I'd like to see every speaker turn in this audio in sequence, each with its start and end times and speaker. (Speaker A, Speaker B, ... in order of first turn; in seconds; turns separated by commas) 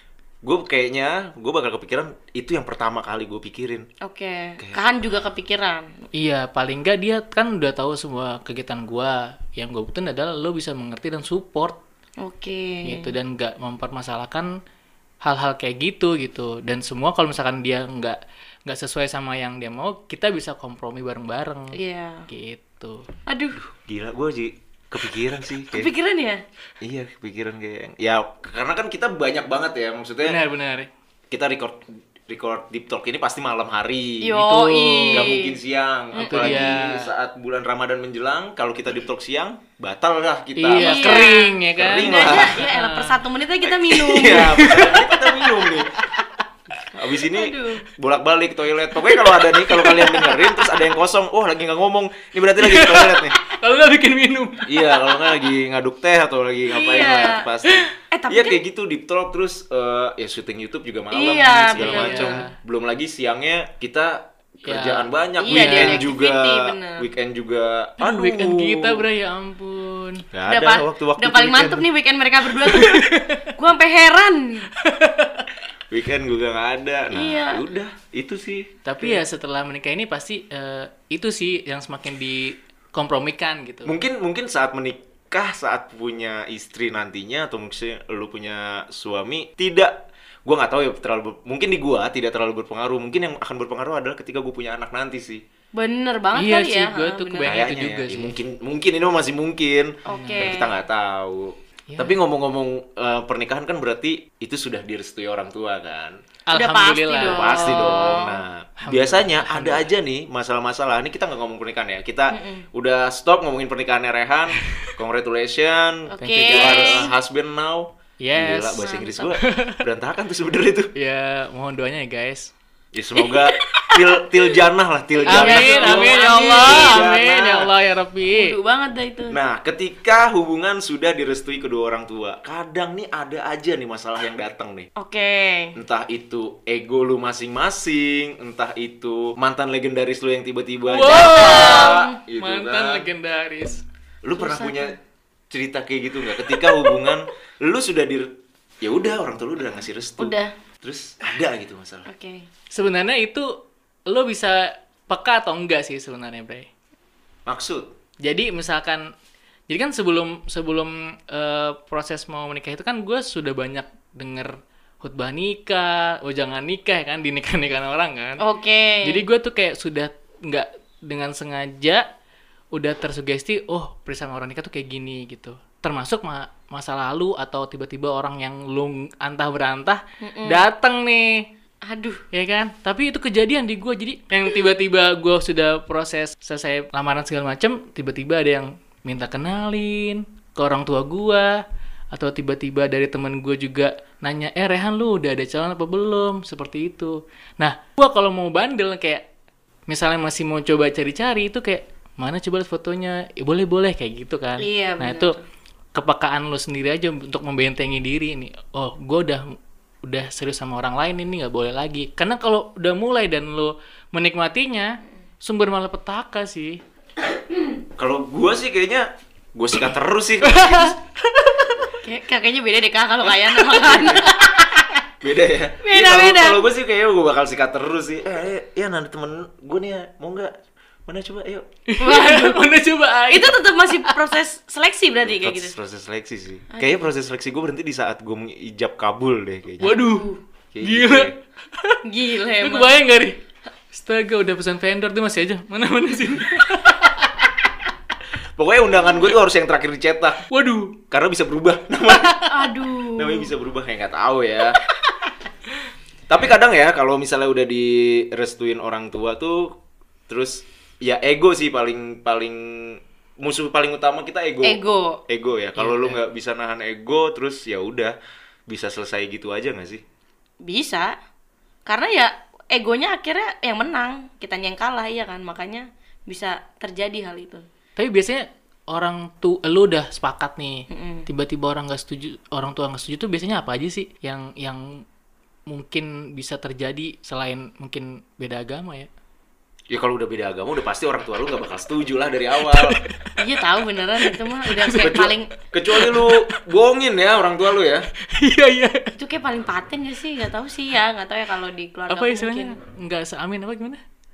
Speaker A: 0.4-3.9, Speaker B: 4.0-5.9, Speaker C: 6.1-11.8, Speaker B: 12.2-13.1, Speaker C: 12.8-14.5, Speaker C: 15.2-21.8, Speaker B: 21.7-22.3, Speaker C: 22.3-23.1, Speaker B: 23.3-23.6, Speaker A: 23.6-25.9, Speaker B: 25.7-26.4, Speaker A: 26.8-30.4, Speaker C: 30.2-30.9, Speaker A: 31.3-34.4, Speaker B: 34.2-35.6, Speaker C: 34.4-35.3, Speaker A: 35.1-42.6, Speaker B: 36.1-36.8, Speaker C: 36.2-37.1, Speaker C: 40.6-43.2, Speaker B: 40.8-44.6, Speaker A: 43.6-45.9, Speaker C: 44.2-46.3, Speaker A: 46.9-53.4, Speaker B: 47.3-47.8, Speaker C: 49.7-50.4, Speaker C: 52.6-55.1, Speaker A: 54.6-69.0, Speaker B: 56.7-57.5, Speaker B: 58.1-58.6, Speaker B: 61.1-62.4, Speaker C: 61.8-62.5, Speaker C: 64.6-66.1, Speaker B: 65.4-67.1, Speaker C: 68.0-70.2, Speaker A: 70.3-71.9, Speaker B: 70.5-74.7, Speaker C: 72.6-73.5, Speaker C: 74.8-75.5, Speaker A: 75.9-79.2, Speaker B: 77.1-77.6, Speaker C: 78.8-83.9, Speaker A: 83.8-89.9, Speaker A: 90.4-95.4, Speaker B: 95.7-97.6, Speaker C: 96.3-98.3, Speaker A: 97.5-106.2, Speaker B: 100.1-100.8, Speaker C: 100.1-100.5, Speaker C: 101.9-102.2, Speaker C: 106.5-108.2, Speaker B: 106.5-108.4, Speaker A: 107.3-120.9, Speaker C: 108.8-109.9, Speaker B: 112.3-112.6, Speaker C: 114.6-114.9, Speaker B: 116.1-117.1, Speaker C: 116.2-117.1, Speaker C: 118.2-118.8, Speaker B: 118.8-119.3, Speaker C: 119.4-119.8, Speaker C: 121.0-122.5, Speaker A: 122.9-127.7, Speaker B: 123.2-124.0, Speaker B: 125.2-127.1, Speaker C: 125.3-128.5, Speaker B: 128.3-129.4, Speaker A: 129.3-134.9, Speaker B: 134.9-135.7, Speaker A: 135.7-143.1, Speaker C: 140.9-143.8, Speaker B: 141.1-142.2, Speaker A: 144.2-144.9, Speaker B: 144.4-144.9, Speaker A: 145.5-148.3, Speaker A: 148.8-152.1, Speaker B: 150.2-150.5, Speaker B: 152.1-152.4, Speaker C: 152.7-156.7, Speaker A: 157.4-157.9, Speaker C: 158.2-159.1, Speaker C: 159.7-168.4, Speaker B: 168.4-169.2, Speaker C: 169.0-172.1, Speaker C: 172.7-181.5, Speaker B: 180.2-180.6, Speaker B: 181.8-182.2, Speaker C: 182.3-191.6, Speaker C: 192.1-199.2, Speaker C: 199.9-205.3, Speaker B: 204.6-205.4, Speaker C: 205.9-216.8, Speaker A: 218.0-220.9, Speaker C: 220.4-221.9, Speaker B: 222.0-225.0, Speaker A: 223.7-224.3, Speaker A: 225.2-230.5, Speaker B: 225.8-226.6, Speaker A: 231.1-231.7, Speaker C: 231.9-234.2, Speaker B: 232.0-232.6, Speaker B: 233.3-235.7, Speaker A: 235.2-240.0, Speaker B: 236.7-237.0, Speaker C: 239.8-240.3, Speaker B: 239.9-240.4, Speaker A: 240.7-241.3, Speaker C: 240.8-242.0, Speaker B: 242.0-243.0, Speaker C: 242.6-243.4, Speaker C: 243.9-247.5, Speaker A: 248.6-250.4, Speaker C: 250.5-251.0, Speaker A: 251.1-252.5, Speaker C: 252.3-252.5, Speaker B: 252.5-253.5, Speaker A: 253.2-254.8, Speaker A: 256.3-259.7, Speaker A: 260.3-268.1, Speaker B: 264.6-265.2, Speaker C: 265.8-266.2, Speaker A: 268.7-270.0, Speaker B: 270.6-271.1, Speaker B: 271.9-277.6, Speaker C: 278.0-285.0, Speaker B: 280.9-281.3, Speaker C: 285.7-289.1, Speaker A: 289.9-293.0, Speaker C: 292.6-293.4, Speaker B: 293.4-295.5, Speaker C: 294.2-295.3, Speaker A: 295.0-298.1, Speaker C: 295.9-296.6, Speaker C: 298.3-299.1, Speaker B: 299.1-302.7, Speaker C: 302.1-304.0